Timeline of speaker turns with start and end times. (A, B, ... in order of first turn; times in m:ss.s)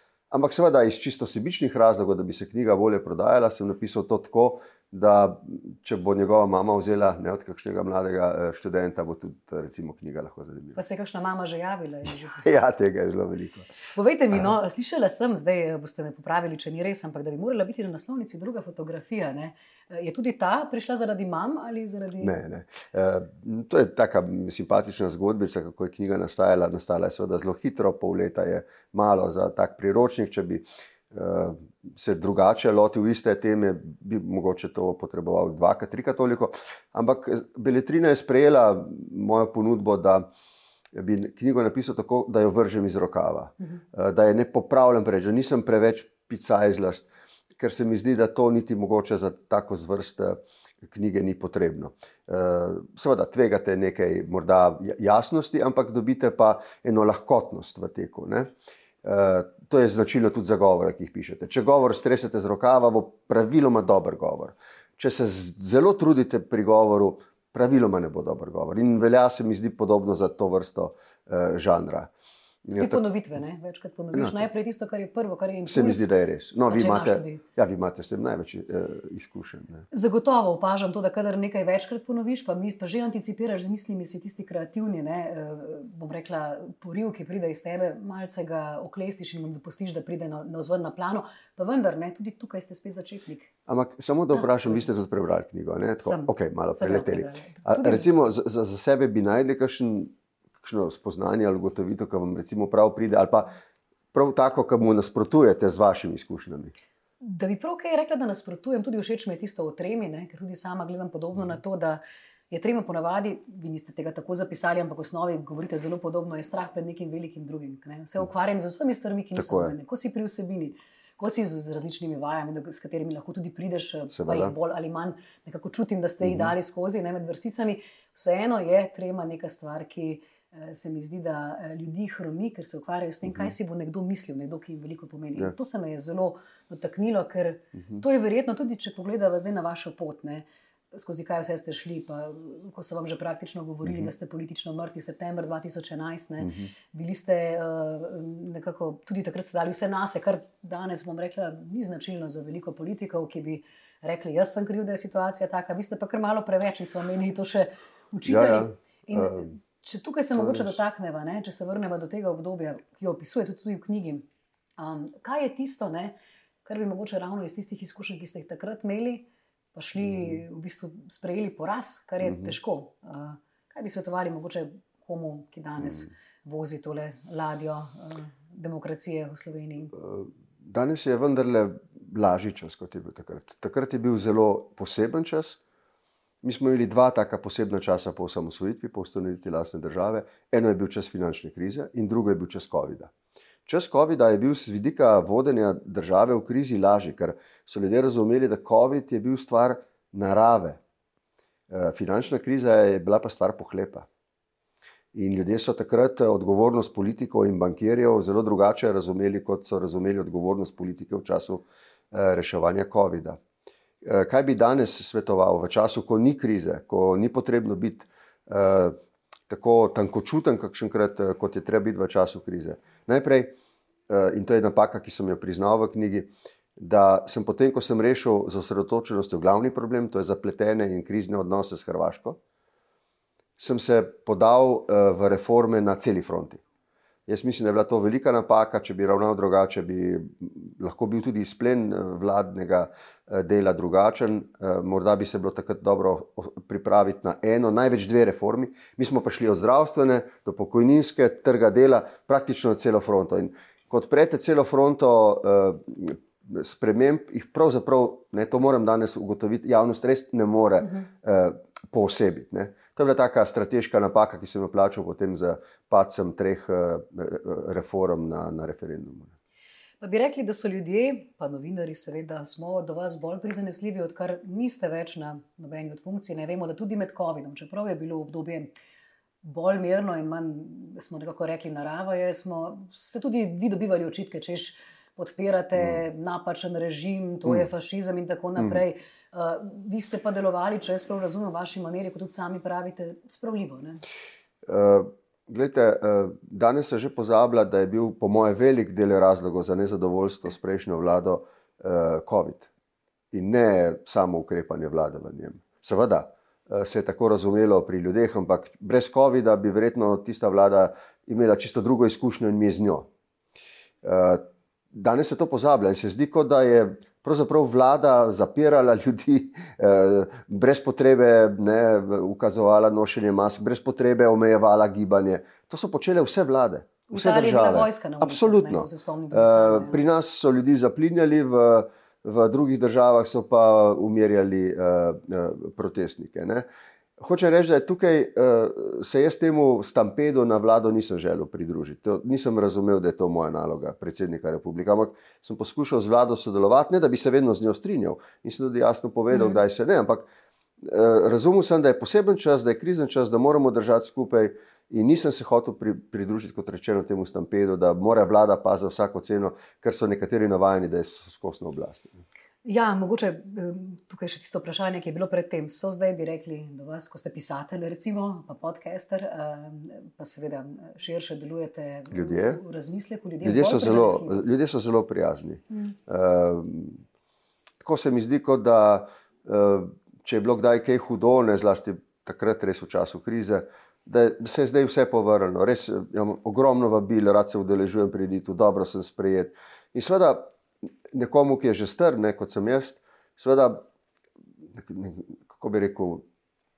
0:00.3-0:10.8 A
0:10.8-0:12.4 B
0:12.1-0:13.7 A
0:14.0-0:22.4 B
0:22.2-0:40.3 A
0:40.9-0:58.5 A
0:59.0-1:12.1 A
1:12.6-1:13.0 A
1:12.7-1:16.1 B
1:14.1-1:14.5 A
1:15.7-1:19.8 A
1:16.7-1:17.4 B
1:19.9-1:33.5 B
1:33.7-1:43.6 A
1:36.0-1:38.1 B
1:44.1-1:46.7 A
1:47.2-2:44.2 B
1:59.4-1:59.7 A
2:04.1-2:04.5 A
2:06.2-2:06.5 A
2:26.4-2:26.7 A
2:38.2-2:39.5 A
2:40.4-2:40.7 A
2:44.8-2:59.9 B
2:59.9-3:05.6 A
3:06.4-3:13.1 A
3:13.7-3:20.8 A
3:21.7-3:24.1 A
3:25.1-3:33.4 A
3:34.0-3:39.0 A
3:39.5-3:43.6 A
3:44.1-3:52.4 A
3:53.6-3:56.6 A
3:57.3-4:29.3 A
4:30.0-4:38.7 B
4:39.4-4:54.0 B
4:54.6-5:02.7 A
5:03.3-5:13.1 A
5:14.0-5:36.7 A
5:27.1-5:30.0 B
5:37.2-5:50.3 A
5:49.3-5:49.6 B
5:50.8-6:02.2 A
6:02.6-6:14.4 B
6:12.1-6:12.6 A
6:13.4-6:17.0 A
6:17.8-6:30.5 A
6:31.1-6:33.8 A
6:34.7-6:36.2 A